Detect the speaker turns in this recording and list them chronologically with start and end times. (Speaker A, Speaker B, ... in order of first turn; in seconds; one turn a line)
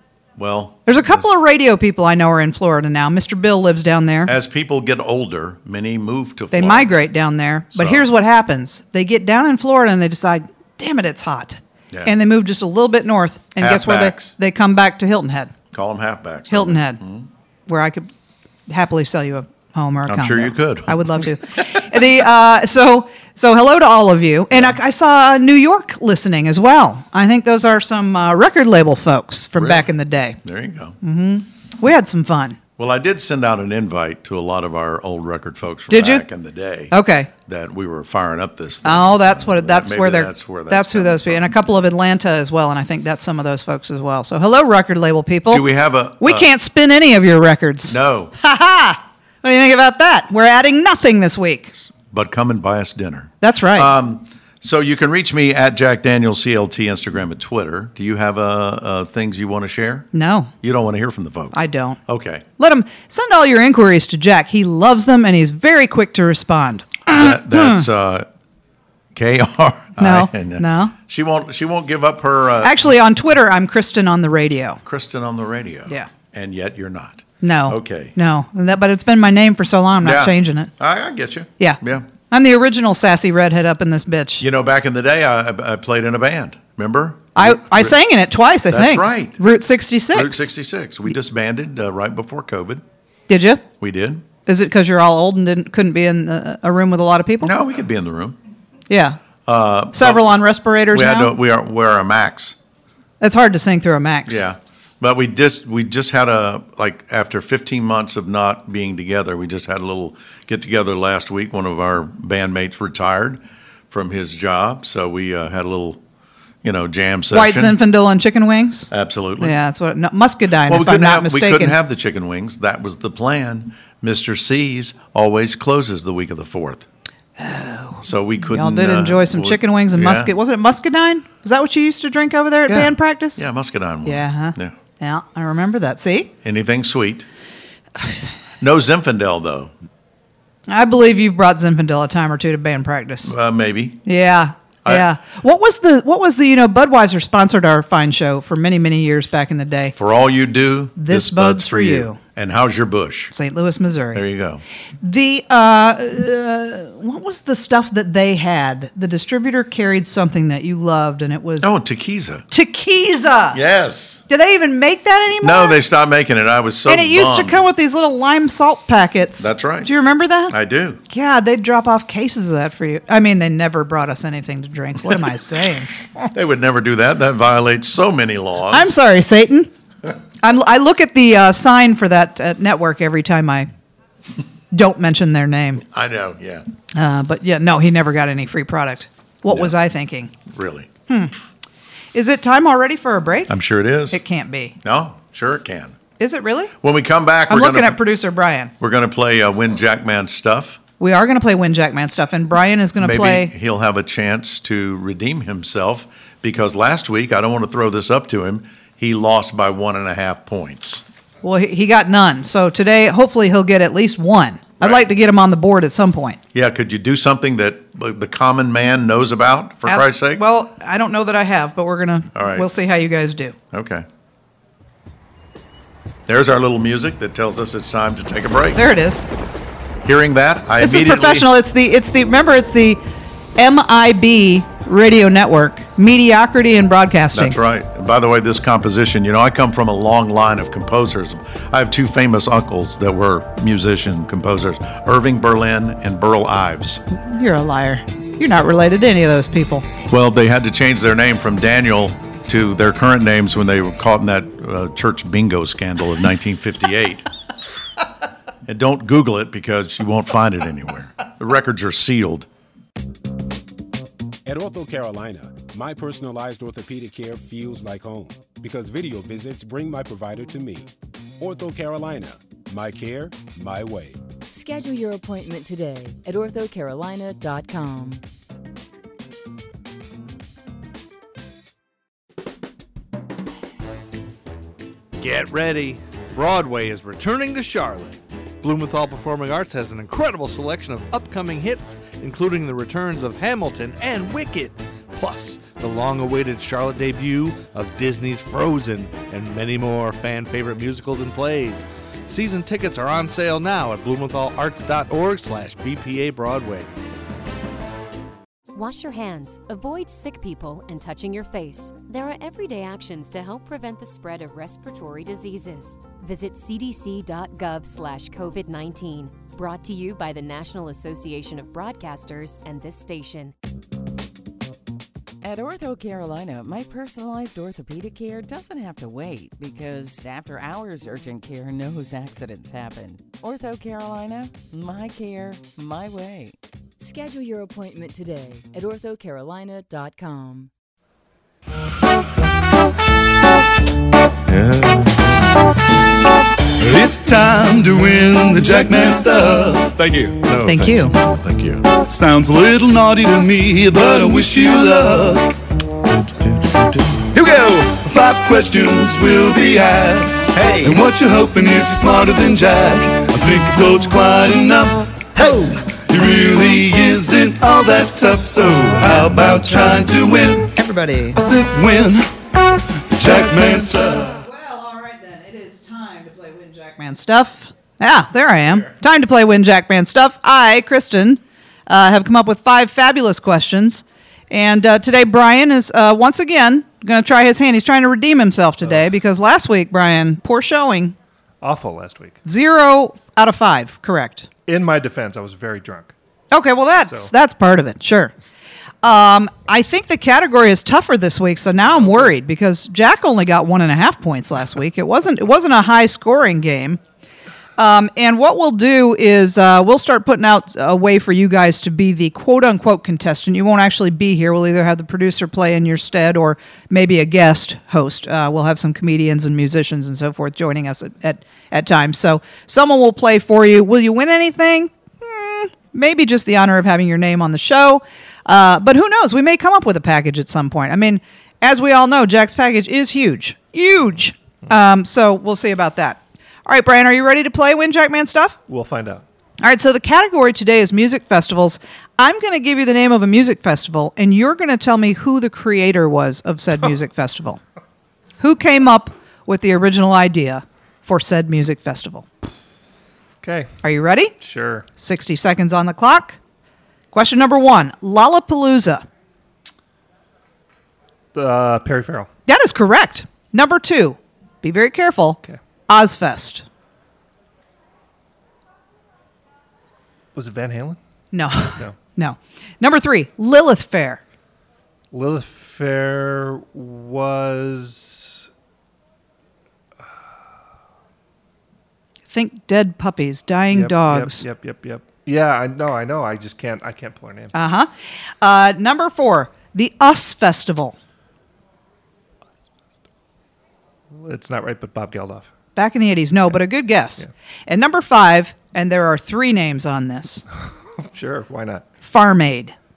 Speaker A: 0.4-1.3
Speaker B: 0.8-4.3
Speaker A: 4.2-6.9
Speaker B: 6.5-15.5
Speaker A: 7.7-8.1
Speaker A: 13.6-14.3
Speaker A: 15.7-17.3
Speaker B: 16.5-17.0
Speaker B: 17.7-18.1
Speaker B: 18.7-30.4
Speaker A: 20.1-21.3
Speaker A: 24.5-24.8
Speaker A: 29.5-31.0
Speaker B: 31.0-32.6
Speaker A: 32.8-41.5
Speaker B: 35.9-36.2
Speaker B: 36.9-37.3
Speaker B: 38.8-45.7
Speaker A: 45.5-46.5
Speaker B: 46.2-51.7
Speaker A: 47.9-48.3
Speaker A: 51.7-60.1
Speaker B: 53.4-53.9
Speaker B: 60.1-60.5
Speaker A: 60.6-62.4
Speaker B: 61.5-62.0
Speaker B: 62.6-67.8
Speaker A: 67.1-68.3
Speaker A: 69.1-72.8
Speaker B: 70.0-70.9
Speaker B: 72.6-74.8
Speaker A: 74.8-78.1
Speaker B: 77.4-80.7
Speaker A: 80.0-82.1
Speaker B: 81.6-84.4
Speaker A: 84.4-87.9
Speaker B: 87.3-90.5
Speaker A: 88.7-89.4
Speaker A: 90.1-92.8
Speaker B: 93.3-93.6
Speaker A: 93.8-94.2
Speaker B: 94.5-97.5
Speaker A: 97.4-98.4
Speaker B: 98.9-99.2
Speaker A: 99.5-100.3
Speaker B: 99.9-101.3
Speaker A: 100.9-102.5
Speaker B: 103.2-104.4
Speaker A: 104.3-116.0
Speaker A: 116.6-117.8
Speaker B: 117.3-121.8
Speaker A: 118.9-119.6
Speaker A: 120.6-126.8
Speaker B: 127.4-133.4
Speaker A: 128.0-130.3
Speaker A: 132.7-134.7
Speaker B: 134.0-136.3
Speaker A: 136.4-137.3
Speaker A: 138.6-139.7
Speaker B: 140.7-143.3
Speaker A: 143.2-144.0
Speaker B: 144.0-149.9
Speaker A: 149.9-153.3
Speaker B: 151.0-152.2
Speaker B: 153.3-154.2
Speaker A: 154.1-154.6
Speaker B: 155.0-161.7
Speaker A: 161.6-162.4
Speaker B: 162.5-163.6
Speaker A: 163.5-164.2
Speaker B: 164.3-165.8
Speaker A: 165.4-167.7
Speaker B: 166.8-170.5
Speaker A: 169.4-169.9
Speaker A: 170.5-171.0
Speaker B: 171.1-175.9
Speaker A: 176.3-178.9
Speaker B: 178.7-179.7
Speaker B: 180.4-183.7
Speaker B: 184.7-185.8
Speaker A: 185.8-186.7
Speaker B: 186.9-190.3
Speaker A: 189.5-189.7
Speaker A: 190.4-190.9
Speaker B: 191.1-191.3
Speaker B: 192.1-193.5
Speaker A: 193.5-194.2
Speaker B: 194.1-194.8
Speaker A: 194.8-196.0
Speaker B: 196.2-196.7
Speaker A: 196.8-198.0
Speaker B: 197.5-198.7
Speaker A: 198.8-200.8
Speaker B: 201.0-203.5
Speaker A: 203.0-211.0
Speaker B: 211.4-216.4
Speaker A: 214.8-215.1
Speaker A: 216.5-220.4
Speaker B: 219.8-223.6
Speaker A: 222.3-222.7
Speaker A: 223.7-224.1
Speaker A: 226.3-228.8
Speaker B: 228.8-229.2
Speaker A: 230.0-231.5
Speaker B: 230.8-233.0
Speaker B: 233.6-237.6
Speaker A: 237.3-247.0
Speaker B: 247.1-249.9
Speaker A: 250.1-257.2
Speaker A: 258.6-262.5
Speaker C: 264.4-270.9
Speaker C: 271.4-274.2
Speaker D: 274.5-278.2
Speaker E: 285.2-306.9
Speaker F: 308.7-323.5
Speaker G: 325.4-336.6
Speaker D: 337.0-340.7
Speaker A: 344.5-344.9
Speaker E: 346.8-350.6
Speaker A: 350.5-351.8
Speaker B: 350.6-351.1
Speaker E: 351.9-355.6
Speaker E: 357.2-370.7
Speaker A: 360.5-360.9
Speaker B: 370.7-371.4
Speaker E: 371.3-372.3
Speaker E: 373.1-374.3
Speaker B: 374.2-391.1
Speaker H: 391.6-392.4
Speaker B: 392.4-394.5
Speaker H: 394.6-396.1
Speaker B: 396.5-398.3
Speaker H: 397.0-397.3
Speaker B: 399.0-407.0
Speaker H: 402.0-402.3
Speaker B: 407.8-438.6
Speaker H: 438.7-439.2
Speaker B: 439.6-447.6
Speaker B: 448.4-452.2
Speaker H: 453.4-453.7
Speaker B: 453.8-454.4
Speaker H: 454.4-454.9
Speaker B: 455.0-456.4
Speaker B: 457.1-459.0
Speaker H: 461.3-462.3
Speaker B: 462.5-466.6
Speaker H: 470.3-471.0
Speaker B: 471.3-474.2
Speaker H: 475.1-478.5
Speaker B: 482.3-484.4
Speaker H: 483.7-487.5
Speaker B: 487.5-487.9
Speaker B: 488.4-490.9
Speaker H: 494.1-495.5
Speaker B: 495.8-500.4
Speaker H: 501.0-501.8
Speaker B: 502.0-502.7